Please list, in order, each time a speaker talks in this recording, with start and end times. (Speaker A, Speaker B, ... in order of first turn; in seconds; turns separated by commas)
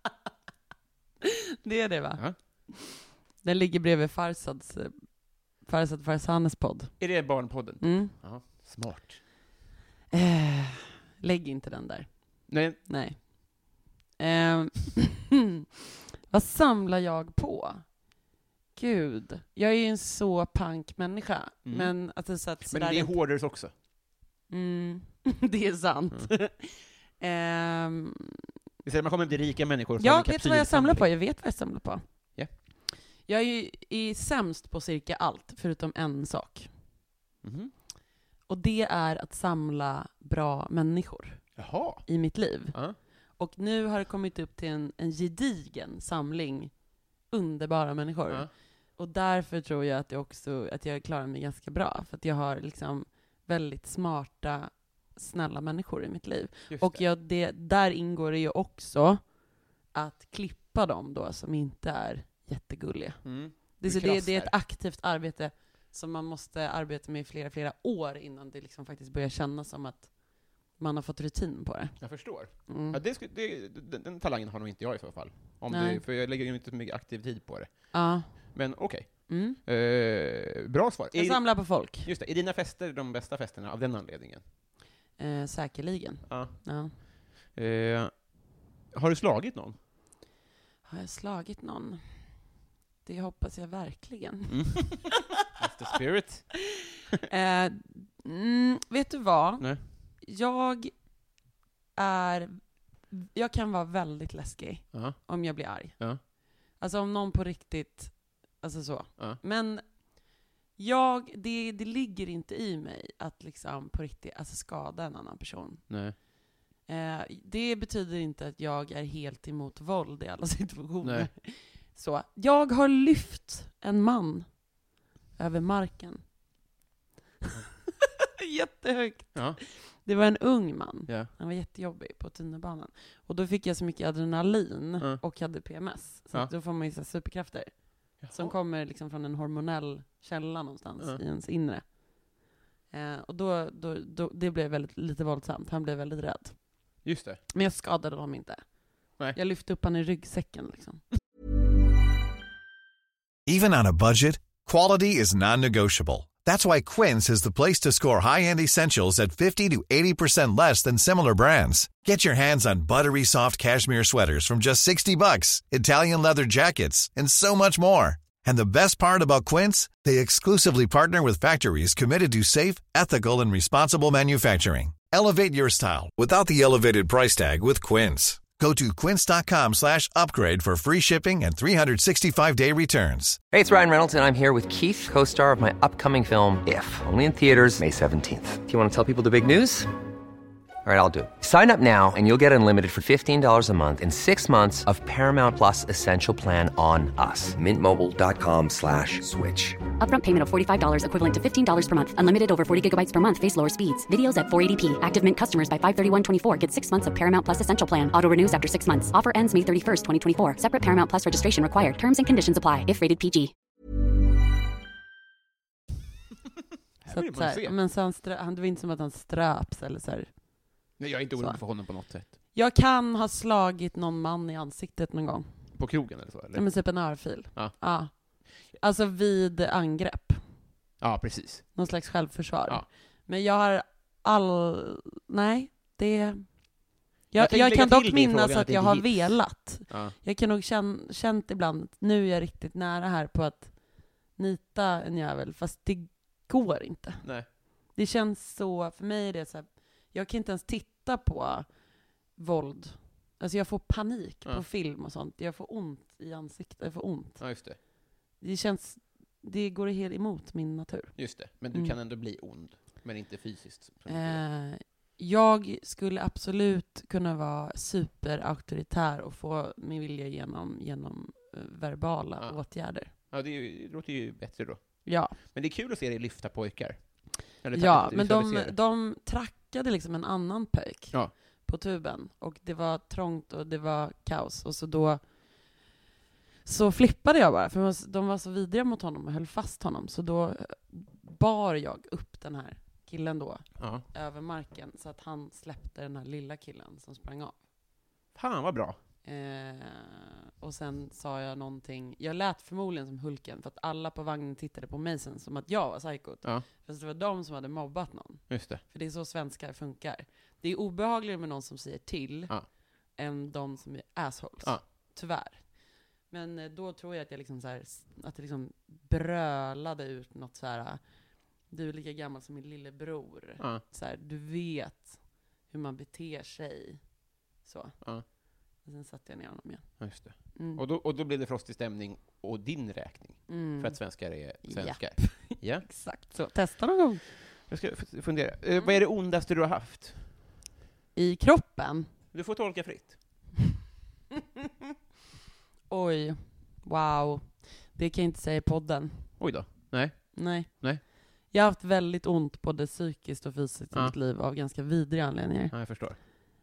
Speaker A: 1.2-8.1, Speaker B: 7.0-9.2, Speaker A: 10.1-15.3, Speaker B: 12.5-12.8, Speaker A: 16.3-18.1, Speaker A: 18.7-23.2, Speaker B: 21.6-23.7, Speaker A: 24.5-28.4, Speaker B: 28.8-31.1, Speaker A: 30.0-32.6, Speaker A: 33.2-36.7, Speaker B: 37.4-37.7, Speaker A: 38.5-73.0, Speaker B: 41.5-43.0, Speaker B: 56.7-57.0, Speaker B: 63.2-64.5, Speaker B: 72.0-84.5, Speaker A: 75.7-76.0, Speaker A: 77.9-79.6, Speaker A: 81.1-82.1, Speaker A: 85.2-87.0, Speaker B: 86.3-89.8, Speaker A: 90.8-92.4, Speaker A: 93.0-95.1, Speaker B: 94.5-96.6, Speaker A: 97.3-101.1, Speaker A: 102.0-115.8, Speaker B: 104.9-106.2, Speaker B: 115.9-116.2, Speaker A: 116.8-124.7, Speaker B: 121.0-121.3, Speaker A: 125.3-126.2, Speaker A: 128.4-142.3, Speaker B: 129.3-129.6, Speaker B: 135.0-135.2, Speaker B: 138.2-138.5, Speaker A: 142.9-151.0, Speaker B: 147.0-147.4, Speaker C: 153.5-183.4, Speaker D: 183.5-189.9, Speaker D: 190.8-199.8, Speaker E: 200.0-213.5, Speaker B: 217.0-217.7, Speaker A: 217.1-220.4, Speaker B: 221.0-222.3, Speaker A: 221.4-221.6, Speaker A: 222.2-225.8, Speaker B: 225.7-227.8, Speaker A: 226.5-230.5, Speaker B: 231.0-231.9, Speaker A: 231.7-251.7, Speaker B: 237.3-240.1, Speaker B: 247.2-247.5, Speaker A: 252.3-257.4, Speaker B: 257.4-257.8, Speaker A: 258.4-262.0, Speaker B: 261.1-264.4, Speaker A: 264.1-273.1, Speaker B: 272.4-278.7, Speaker A: 275.0-275.4, Speaker A: 277.7-285.8, Speaker A: 286.6-297.6, Speaker B: 293.8-294.0, Speaker B: 298.3-299.0, Speaker A: 299.2-312.6, Speaker B: 308.5-308.8, Speaker A: 313.1-321.0, Speaker A: 321.7-327.0, Speaker A: 327.6-328.0, Speaker A: 328.8-330.8, Speaker B: 330.0-335.9, Speaker A: 333.5-337.2, Speaker B: 337.4-340.4, Speaker A: 341.1-342.1, Speaker B: 342.3-343.2, Speaker A: 345.9-349.5, Speaker B: 349.4-351.0, Speaker A: 350.3-355.8, Speaker B: 355.7-356.2